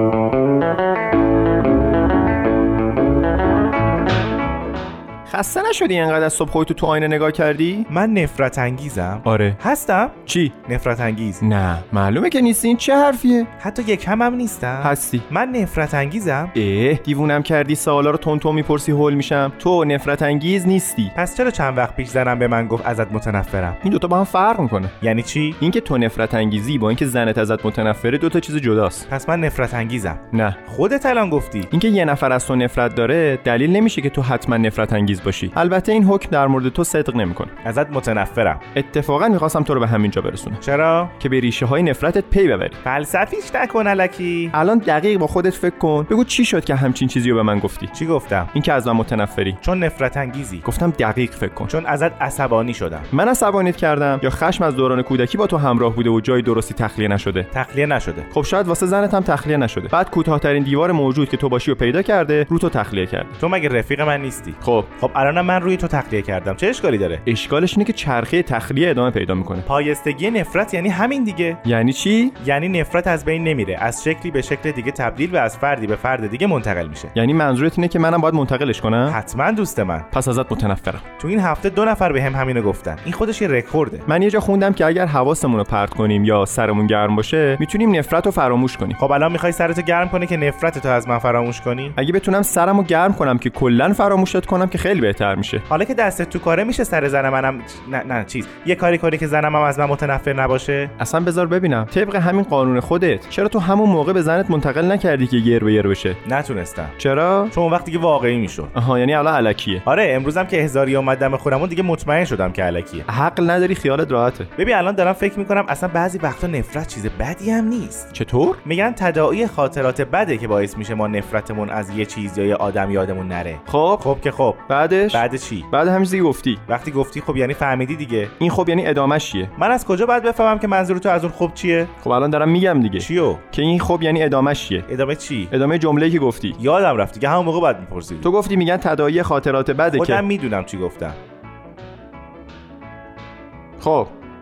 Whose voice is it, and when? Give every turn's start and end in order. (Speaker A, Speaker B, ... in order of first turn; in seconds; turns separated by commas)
Speaker A: 5.3-7.9, Speaker B: 7.9-11.4, Speaker A: 9.2-9.6, Speaker A: 10.2-10.5, Speaker A: 11.4-13.5, Speaker B: 13.6-16.5, Speaker A: 14.8-15.2, Speaker A: 16.5-21.1, Speaker B: 21.1-23.8, Speaker A: 23.8-24.9, Speaker B: 25.0-25.6, Speaker A: 25.6-29.1, Speaker B: 29.1-31.7, Speaker A: 30.3-30.6, Speaker A: 31.7-37.5, Speaker B: 37.6-38.6, Speaker A: 38.7-40.6, Speaker B: 40.6-41.1, Speaker A: 41.2-42.8, Speaker B: 42.8-44.5, Speaker A: 44.5-47.9, Speaker B: 47.9-48.5, Speaker A: 48.5-49.6, Speaker B: 49.6-50.6, Speaker A: 50.6-51.7, Speaker B: 51.7-53.1, Speaker A: 53.1-57.5, Speaker B: 57.5-58.3, Speaker A: 58.3-63.3, Speaker B: 63.4-67.2, Speaker A: 64.6-64.9, Speaker A: 67.2-69.6, Speaker B: 69.6-71.6, Speaker A: 71.6-72.3, Speaker B: 72.4-77.1, Speaker A: 77.1-79.2, Speaker B: 79.0-80.1, Speaker A: 80.1-81.0, Speaker B: 81.2-84.0, Speaker A: 84.1-89.0, Speaker B: 89.0-92.0, Speaker A: 92.0-95.6, Speaker B: 95.7-100.9, Speaker A: 101.0-106.2, Speaker B: 106.2-106.9, Speaker A: 107.0-107.5, Speaker B: 107.5-108.7, Speaker A: 108.7-109.8, Speaker B: 109.8-113.0, Speaker A: 113.1-114.5, Speaker B: 114.6-118.1, Speaker A: 118.1-118.6, Speaker B: 118.6-125.7, Speaker A: 123.7-124.0, Speaker A: 124.7-126.6, Speaker B: 126.7-128.3, Speaker A: 128.4-129.5, Speaker B: 129.6-131.9, Speaker A: 132.0-134.8, Speaker B: 133.0-133.4, Speaker B: 134.9-135.5, Speaker A: 135.5-136.6, Speaker B: 136.6-138.3, Speaker A: 138.2-140.2, Speaker B: 139.9-141.2, Speaker A: 143.8-144.1